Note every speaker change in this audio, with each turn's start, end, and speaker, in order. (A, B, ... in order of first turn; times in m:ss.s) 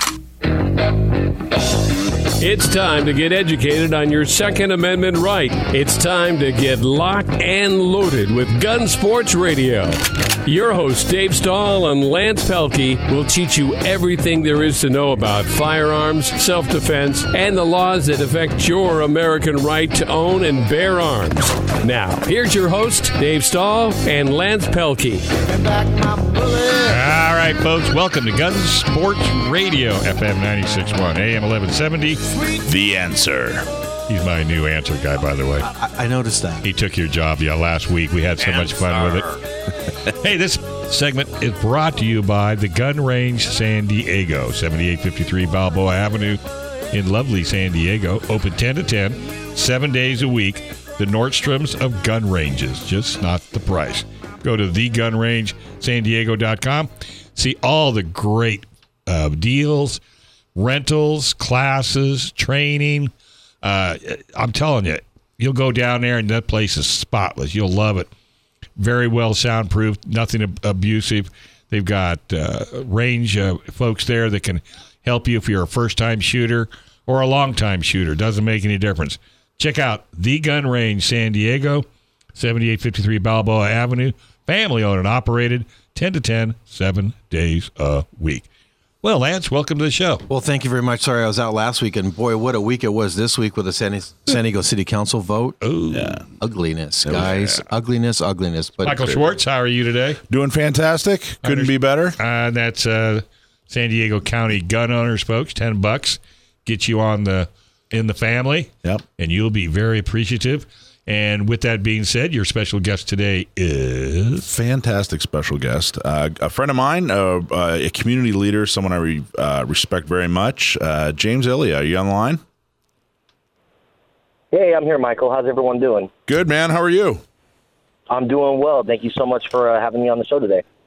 0:02.4-0:25.3 A
0:26.8-0:32.2 B
0:32.6-0:33.7 C
0:34.1-0:35.7 B
0:35.7-0:36.7 D
0:36.6-0:39.4 B
0:38.4-0:39.3 C
0:40.1-0:46.4 B
0:46.9-1:00.0 B
1:00.6-1:08.1 B
1:08.8-1:28.4 B
1:29.0-1:30.2 B
1:30.3-1:35.6 D
1:35.6-1:36.2 B
1:35.9-1:36.2 C
1:36.4-1:39.2 D
1:37.1-1:37.6 B
1:38.8-1:40.2 B
1:40.3-1:42.2 C
1:41.4-1:54.5 B
1:54.5-2:02.4 C
2:04.5-2:06.1 E
2:06.3-2:07.2 C
2:08.1-2:10.6 E